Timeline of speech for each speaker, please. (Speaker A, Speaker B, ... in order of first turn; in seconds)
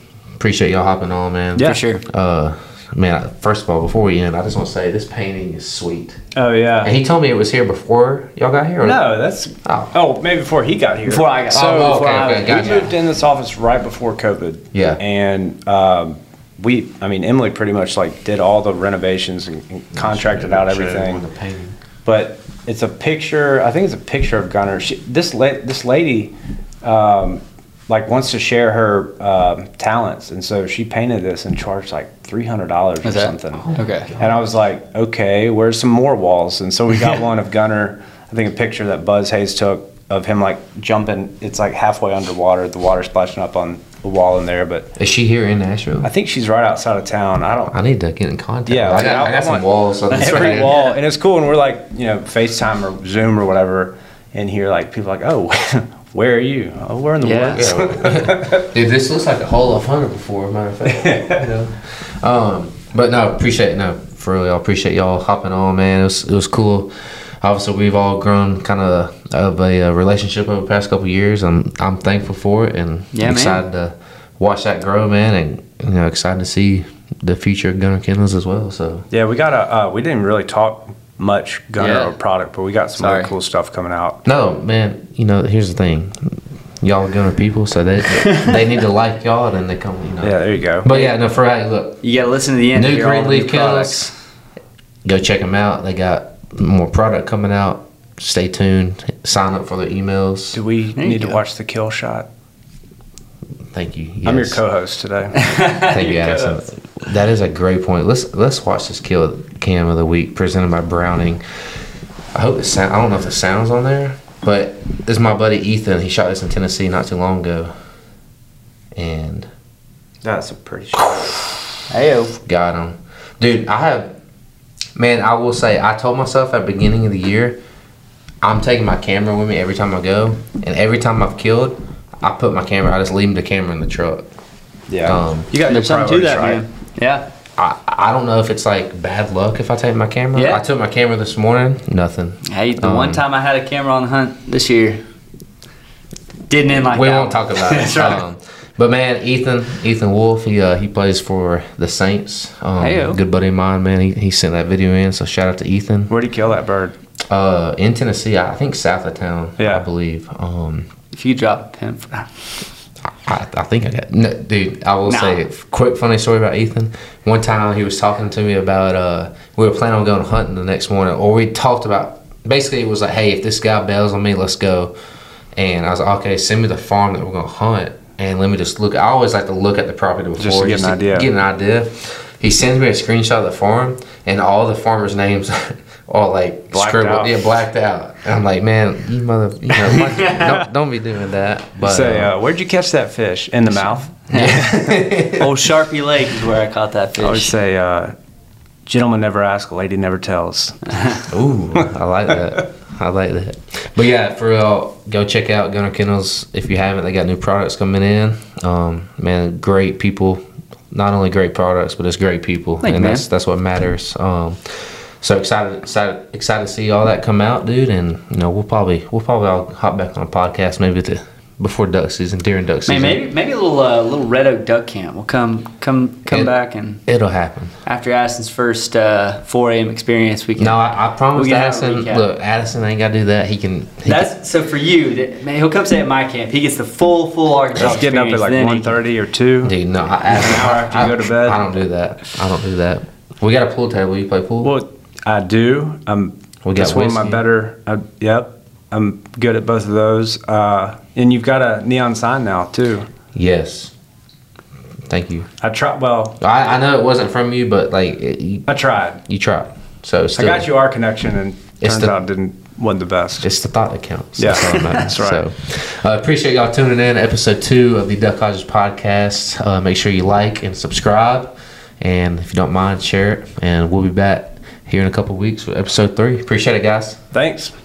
Speaker A: 0.4-6.2, 6.8-9.0, 9.6-9.9, 11.5-12.9, 14.7-15.0, 19.9-21.8, 33.5-34.5, 45.0-46.1, 47.7-50.7, 57.5-79.0, 84.2-92.0, 92.7-94.0, 95.0-100.6, 103.7-104.6, 105.9-111.4, 112.3-117.7, 118.9-119.5, 122.4-124.1, 125.0-127.6, 128.4-134.3, 135.0-135.5, 137.6-143.2, 146.8-156.1, 157.3-160.9, 163.0-174.9, 175.5-192.3, 194.3-195.5, 201.3-223.2, 227.0-227.7, 230.6-234.3, 239.6-244.7, 246.6-247.4, 253.3-253.9, 255.1-255.5, 256.4-258.7, 259.2-260.7, 261.8-262.1, 263.4-277.2
Speaker B: 1.5-1.8, 6.3-6.9, 8.8-21.2, 22.0-44.9, 46.0-47.8, 48.6-58.6, 60.9-61.4, 79.1-84.2, 90.2-90.9, 100.5-102.3, 104.2-105.5, 120.2-121.6, 134.9-136.6, 156.1-156.9, 159.6-159.8, 180.4-181.3, 186.7-187.4, 191.8-194.9, 197.2-198.1, 198.8-201.8, 237.8-239.7, 240.3-241.6, 244.6-253.1, 255.6-256.4, 258.7-259.2, 260.4-263.5, 264.4-265.4, 277.3-277.7
Speaker C: 1.6-2.0, 11.1-12.9, 33.0-34.1, 50.1-50.8, 57.2-57.7, 73.1-73.6, 81.8-82.1, 83.0-83.3, 92.0-94.1, 101.0-101.4, 105.3-106.6, 121.9-122.3, 135.6-137.3, 140.3-140.6, 142.4-145.0, 146.5-148.2, 152.8-153.2, 161.1-162.4, 165.1-165.4, 189.9-190.4, 194.3-194.8, 195.3-197.6, 200.9-201.2, 212.8-213.2, 222.9-227.0, 227.8-230.8, 231.3-232.2, 234.0-239.0